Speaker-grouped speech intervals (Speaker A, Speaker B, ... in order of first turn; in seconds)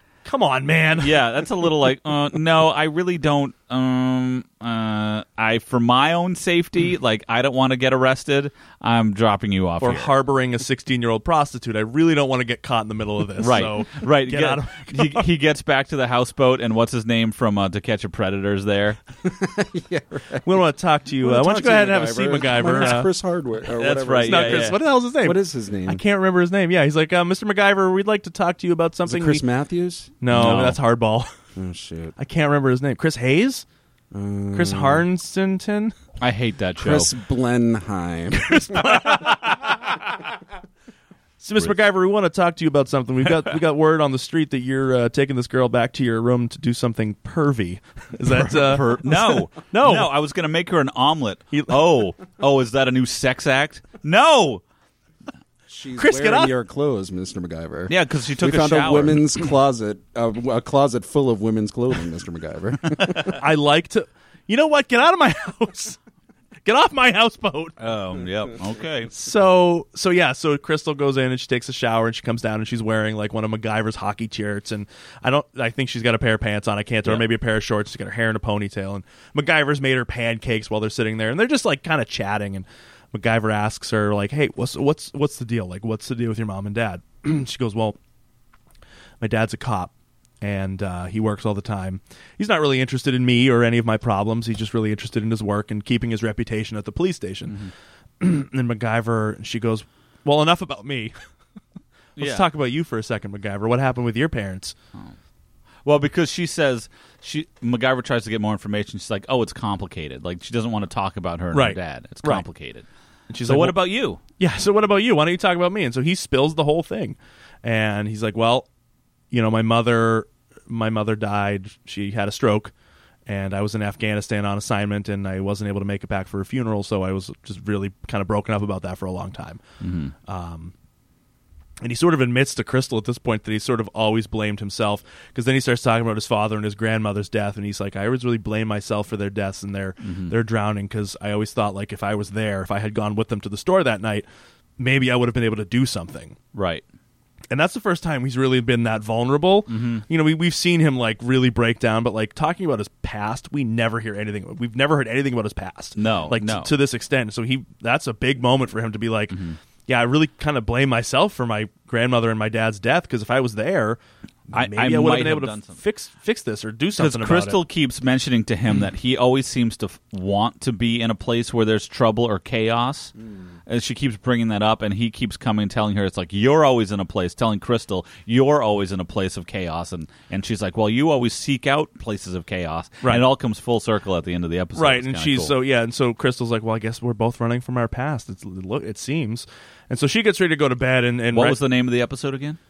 Speaker A: 0.2-1.1, 9.8-15.2, 20.4-23.1, 24.2-29.4, 30.2-31.3, 32.2-33.6, 34.5-35.9, 38.3-39.7, 41.4-50.1, 51.5-51.8, 56.0-56.5, 63.3-66.0, 66.7-67.7, 69.1-88.0, 89.2-97.6, 98.2-101.2, 102.2-104.8, 111.5-112.5, 113.3-113.8, 114.4-118.7, 119.3-122.7, 123.3-129.6, 130.3-130.7, 131.8-144.3, 144.8-146.4, 147.5-167.6, 184.8-191.6
Speaker B: 1.0-10.1, 13.4-19.0, 23.7-24.8, 30.3-30.8, 36.2-37.1, 48.3-54.6, 57.9-59.4, 67.8-69.1, 102.2-102.5, 105.8-112.9, 113.4-114.2, 129.8-130.1, 140.0-140.3, 146.5-146.8, 149.7-150.1, 156.0-156.7, 159.3-159.6, 164.5-165.8, 167.0-173.1, 173.7-185.5, 191.3-192.6
Speaker C: 19.2-20.5, 21.2-26.0, 29.1-30.2, 31.6-32.1, 34.1-35.0, 36.8-39.2, 55.7-63.4